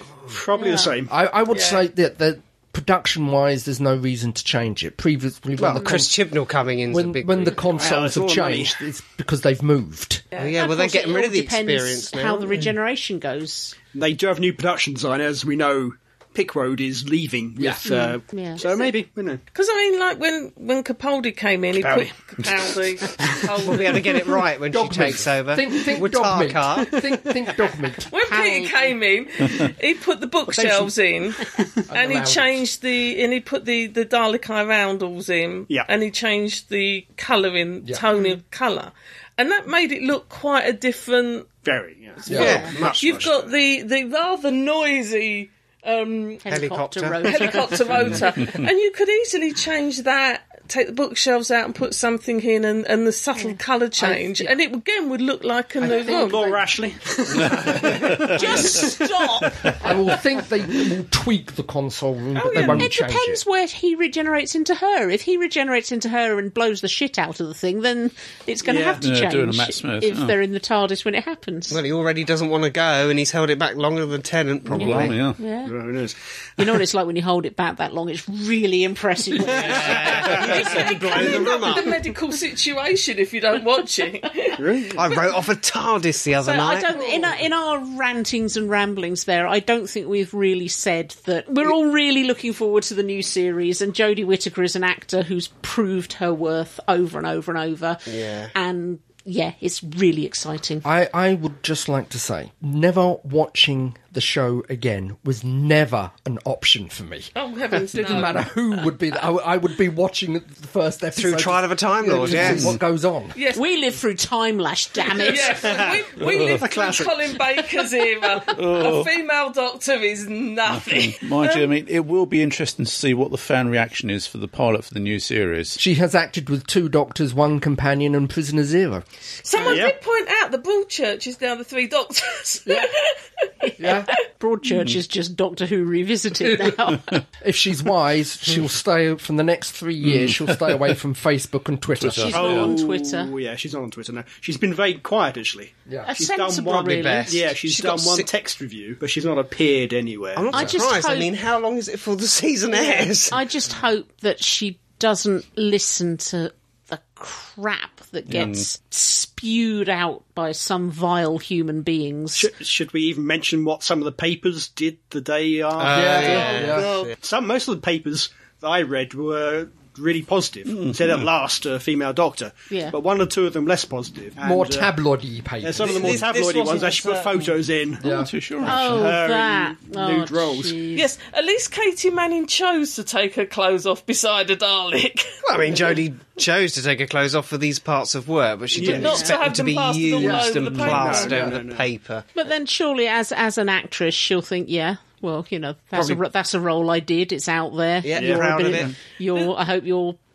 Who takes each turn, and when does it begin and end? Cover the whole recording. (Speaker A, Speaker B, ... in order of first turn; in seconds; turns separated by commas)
Speaker A: 0.3-1.1, Speaker B: 0.6-0.9, Speaker C: 1.1-6.1, Speaker B: 1.5-1.9, Speaker D: 5.6-7.8, Speaker E: 5.7-6.1, Speaker C: 6.9-10.2, Speaker A: 7.6-8.8, Speaker B: 10.3-10.6, Speaker D: 10.4-12.7, Speaker E: 10.5-13.8, Speaker A: 13.9-19.4, Speaker C: 17.6-17.8, Speaker E: 17.8-18.9, Speaker B: 19.5-24.1, Speaker A: 21.8-23.5, Speaker D: 23.6-26.9, Speaker C: 24.7-28.1, Speaker B: 28.1-41.5, Speaker E: 28.2-29.0, Speaker C: 30.5-30.9, Speaker C: 31.9-32.6, Speaker A: 41.6-43.3, Speaker C: 42.3-42.6, Speaker D: 42.3-43.5, Speaker E: 42.4-42.8, Speaker B: 43.0-46.4, Speaker E: 46.4-48.2, Speaker D: 46.5-47.4, Speaker B: 47.2-56.4, Speaker E: 53.4-54.5, Speaker C: 55.8-56.2, Speaker A: 56.1-59.7, Speaker E: 57.9-59.8, Speaker C: 59.8-63.4, Speaker B: 62.4-62.8, Speaker F: 62.5-62.8, Speaker E: 62.6-71.8, Speaker A: 68.6-69.0, Speaker F: 69.0-70.4, Speaker D: 71.7-75.3, Speaker F: 74.7-75.4, Speaker E: 74.8-75.8, Speaker A: 75.6-76.8, Speaker E: 76.6-81.8, Speaker A: 79.5-81.1, Speaker D: 79.6-81.9, Speaker B: 80.5-85.1, Speaker A: 84.6-85.0, Speaker D: 84.9-87.0, Speaker E: 86.4-100.9, Speaker D: 98.1-98.5, Speaker C: 100.8-107.3, Speaker B: 107.3-108.5, Speaker C: 107.9-113.3, Speaker D: 111.2-112.8, Speaker B: 113.4-113.7, Speaker E: 113.5-115.7, Speaker B: 115.2-121.7, Speaker A: 115.6-117.2, Speaker F: 116.2-116.6, Speaker F: 118.5-119.1, Speaker F: 120.7-125.8, Speaker C: 125.8-129.0, Speaker B: 129.4-133.1, Speaker A: 129.7-129.9, Speaker C: 132.7-132.9, Speaker C: 133.8-134.1, Speaker E: 133.8-137.2, Speaker C: 137.4-142.6, Speaker F: 140.0-140.8, Speaker F: 142.0-142.7, Speaker E: 142.2-143.3, Speaker A: 142.3-150.7, Speaker E: 146.1-147.3, Speaker D: 146.6-148.3, Speaker D: 150.4-153.4, Speaker E: 150.5-151.3, Speaker E: 152.7-162.5, Speaker D: 158.3-158.7, Speaker A: 162.3-174.9, Speaker D: 165.8-167.2, Speaker C: 165.9-166.9, Speaker B: 166.5-167.1, Speaker F: 170.7-171.3, Speaker E: 172.7-173.0, Speaker C: 174.4-176.1, Speaker A: 175.6-178.0, Speaker D: 175.8-177.5, Speaker C: 178.0-178.3, Speaker F: 178.0-179.1, Speaker E: 178.6-181.1, Speaker A: 178.7-180.8, Speaker B: 180.9-185.3, Speaker D: 185.4-192.3, Speaker A: 188.7-189.3, Speaker B: 188.8-191.4, Speaker E: 188.9-189.4, Speaker C: 190.2-190.6, Speaker A: 190.8-191.9, Speaker E: 192.3-200.2, Speaker D: 195.9-196.2, Speaker D: 198.0-199.0, Speaker A: 198.2-198.8